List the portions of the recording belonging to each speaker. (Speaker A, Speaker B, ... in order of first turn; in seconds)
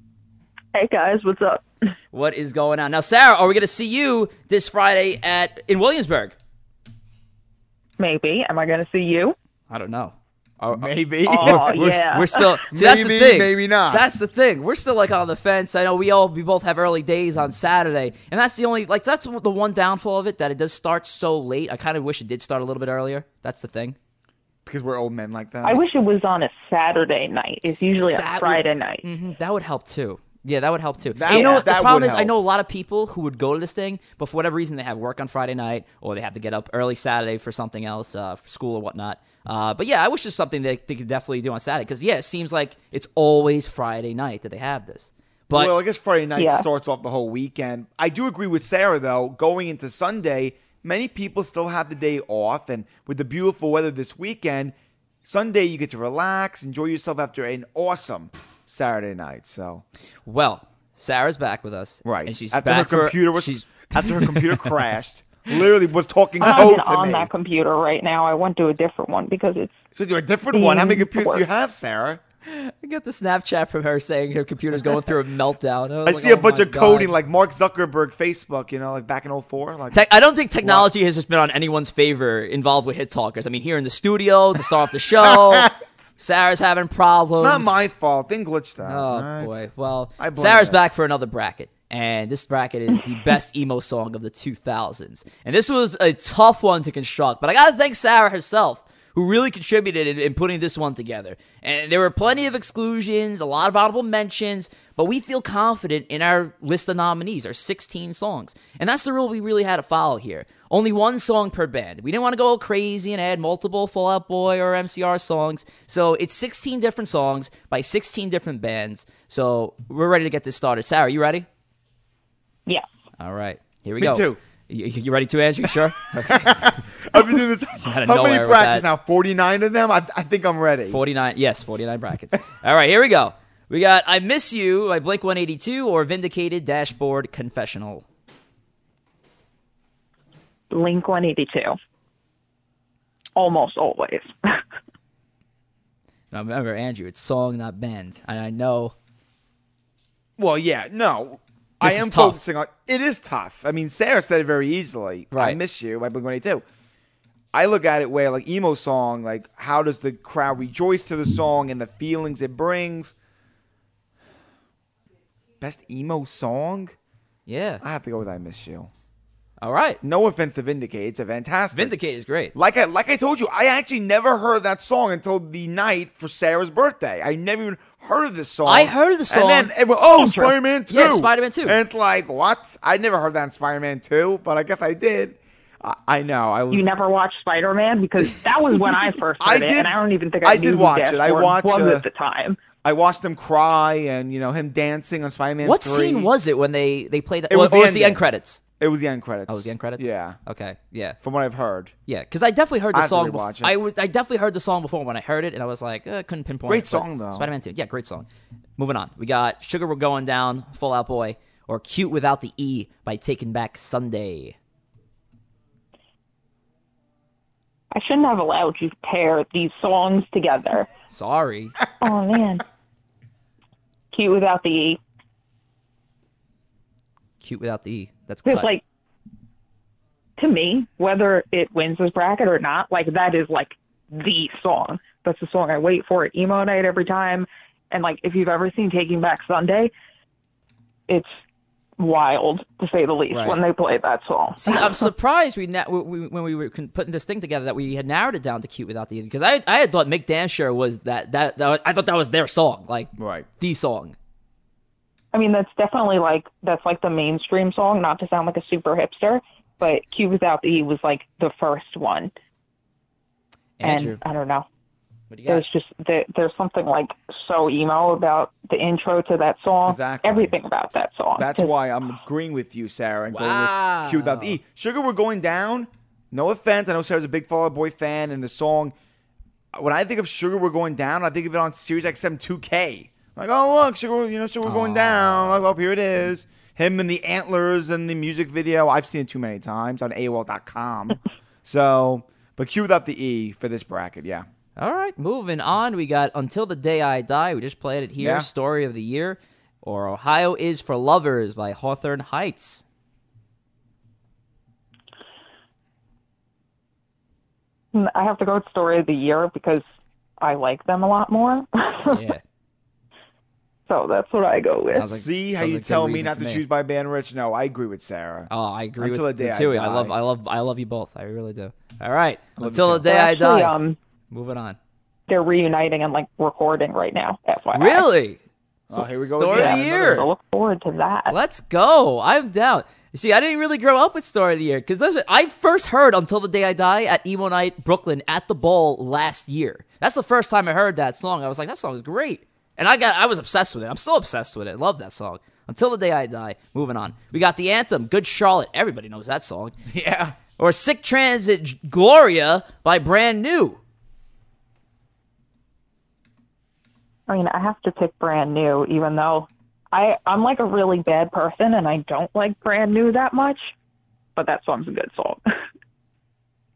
Speaker A: 0.7-1.6, 8.0-9.3, 11.3-12.6, 25.6-29.0, 31.3-31.6, 46.4-46.7, 66.4-69.8, 70.5-71.4, 140.7-141.8, 143.3-144.6, 180.2-180.5, 186.7-192.6, 217.9-220.9, 222.0-222.6, 224.1-225.0, 228.4-228.8, 230.4-239.9, 242.0-245.1, 255.3-262.3, 263.8-264.6, 265.5-271.7, 307.9-309.8, 310.4-312.2, 313.9-315.1, 323.0-324.0, 325.3-328.1, 329.5-331.4, 357.3-363.7, 364.4-365.4
Speaker B: 2.1-6.4, 9.7-24.0, 28.1-45.7, 60.2-64.7, 72.4-77.1, 79.9-87.7, 88.8-121.5, 123.2-126.9, 127.8-128.8, 130.9-138.0, 146.3-148.9, 151.8-152.4, 155.3-155.6, 167.5-167.8, 169.6-170.0, 171.7-172.5, 178.7-179.7, 180.9-181.8, 195.6-198.6, 199.5-201.2, 202.1-208.3, 208.8-214.6, 221.1-221.8, 227.4-228.7, 243.3-243.6, 244.6-254.2, 263.8-264.2, 265.3-265.6, 273.3-274.6, 284.6-285.7, 294.8-302.8, 312.1-312.4, 314.9-316.6, 318.5-323.7, 324.3-324.8, 327.7-328.4, 328.9-330.3, 331.3-349.8, 350.6-353.8
Speaker C: 10.7-11.8, 12.7-14.1, 24.6-25.8, 31.1-32.3, 45.5-59.8, 62.0-67.3, 70.0-72.2, 76.0-80.0, 80.6-80.9, 85.2-85.7, 87.3-89.5, 90.2-90.9, 124.0-124.4, 126.3-131.0, 150.4-156.6, 157.5-163.1, 165.6-166.9, 167.8-168.9, 170.0-171.9, 172.5-186.9, 189.4-192.0, 192.8-196.3, 197.5-198.2, 198.8-200.4, 201.2-201.9, 202.9-203.7, 206.7-207.5, 253.2-253.5, 269.9-270.5, 271.4-278.9, 279.7-294.4, 298.2-298.5, 315.1-320.1, 322.6-323.1, 328.9-330.2, 349.9-350.4